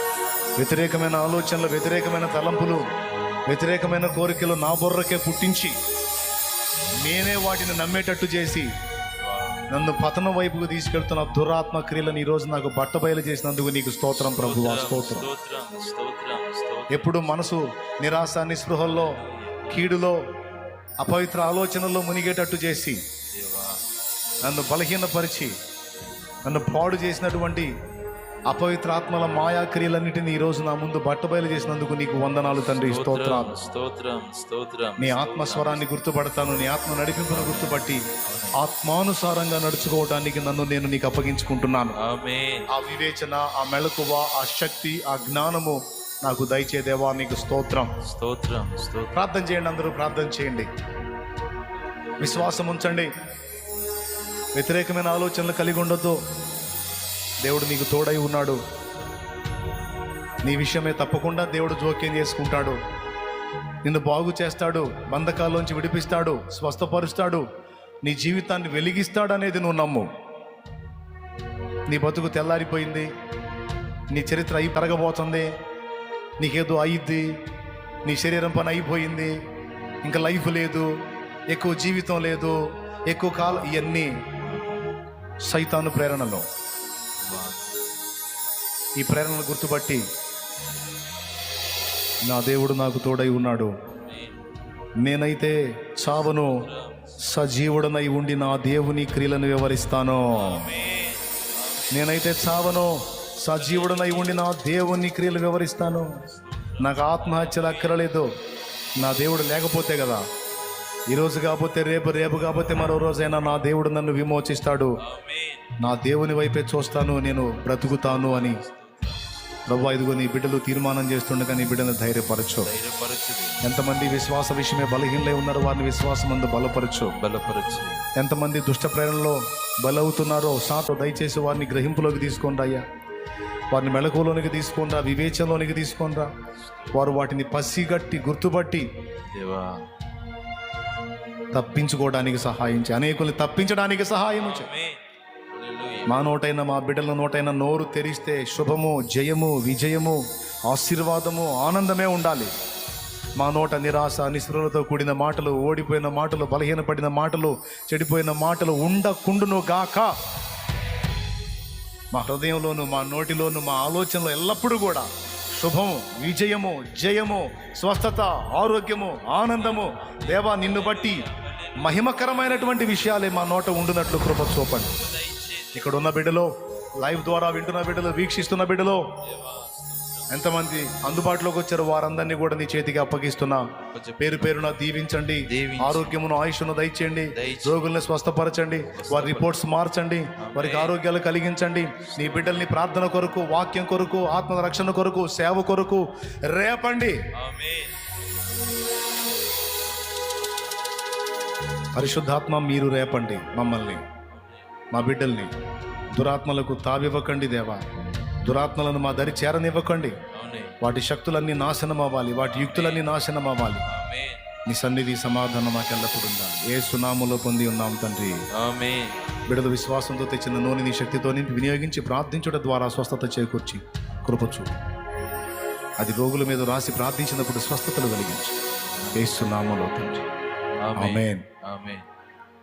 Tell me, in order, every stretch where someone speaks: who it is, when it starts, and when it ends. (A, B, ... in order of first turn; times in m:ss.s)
0:00.6-0:02.9 A
0:03.5-0:05.8 A
0:07.0-0:08.7 A
0:09.2-0:09.6 B
0:09.7-0:15.3 A
0:14.2-0:17.3 B
0:16.9-0:20.2 A
0:18.8-0:19.9 B
0:21.0-0:23.0 A
0:23.3-0:23.8 B
0:24.4-0:25.5 A
0:26.4-0:27.7 A
0:28.5-0:33.5 A
0:32.7-0:35.8 B
0:35.0-0:38.0 A
0:37.3-0:38.6 B
0:38.6-0:42.0 A
0:42.0-0:42.7 B
0:42.7-0:47.9 A
0:48.0-0:49.2 B
0:49.1-0:50.7 A
0:52.2-0:52.6 B
0:52.2-0:53.1 A
0:54.5-0:56.2 A
0:57.4-0:58.6 A
1:00.4-1:02.8 A
1:03.8-1:07.4 A
1:08.0-1:10.1 A
1:11.9-1:13.1 A
1:14.1-1:15.5 A
1:16.4-1:17.3 A
1:18.0-1:19.3 A
1:20.0-1:20.9 A
1:21.5-1:22.6 A
1:23.1-1:24.1 A
1:25.5-1:26.4 A
1:27.2-1:27.8 B
1:29.0-1:30.0 A
1:32.2-1:33.7 A
1:33.9-1:34.4 B
1:35.0-1:36.6 A
1:36.1-1:37.2 B
1:37.2-1:40.7 A
1:40.3-1:42.5 B
1:41.9-1:46.1 A
1:43.5-1:44.5 B
1:46.2-1:48.0 B
1:46.8-1:48.3 A
1:49.0-1:50.2 A
1:51.1-1:55.0 A
1:55.0-1:55.7 B
1:55.8-1:58.6 A
1:57.8-1:59.4 B
1:59.7-2:02.7 A
2:02.6-2:03.6 B
2:03.6-2:07.1 A
2:07.1-2:08.0 B
2:08.2-2:12.8 A
2:13.7-2:16.3 A
2:16.9-2:18.8 A
2:19.3-2:19.9 B
2:21.5-2:24.7 A
2:24.3-2:26.2 B
2:26.1-2:32.5 A
2:33.4-2:40.1 A
2:42.1-2:51.2 A
2:49.6-2:52.9 B
2:51.8-2:54.9 A
2:54.9-2:56.1 B
2:55.7-2:59.1 A
2:59.2-3:01.0 B
3:00.3-3:03.6 A
3:03.8-3:04.8 B
3:04.2-3:17.2 A
3:05.4-3:06.2 B
3:07.3-3:07.8 B
3:08.9-3:09.6 B
3:10.4-3:11.0 B
3:12.0-3:12.7 B
3:17.4-3:18.0 B
3:19.3-3:21.0 B
3:21.9-3:24.0 A
3:24.3-3:24.7 B
3:24.9-3:25.5 A
3:26.1-3:27.8 A
3:28.4-3:30.2 A
3:30.3-3:30.8 B
3:30.8-3:33.8 A
3:32.4-3:33.1 B
3:33.8-3:34.4 B
3:34.6-3:38.4 A
3:38.6-3:39.2 B
3:39.5-3:44.7 A
3:46.0-3:48.6 A
3:49.1-3:50.2 A
3:50.8-3:52.0 B
3:51.0-3:51.4 A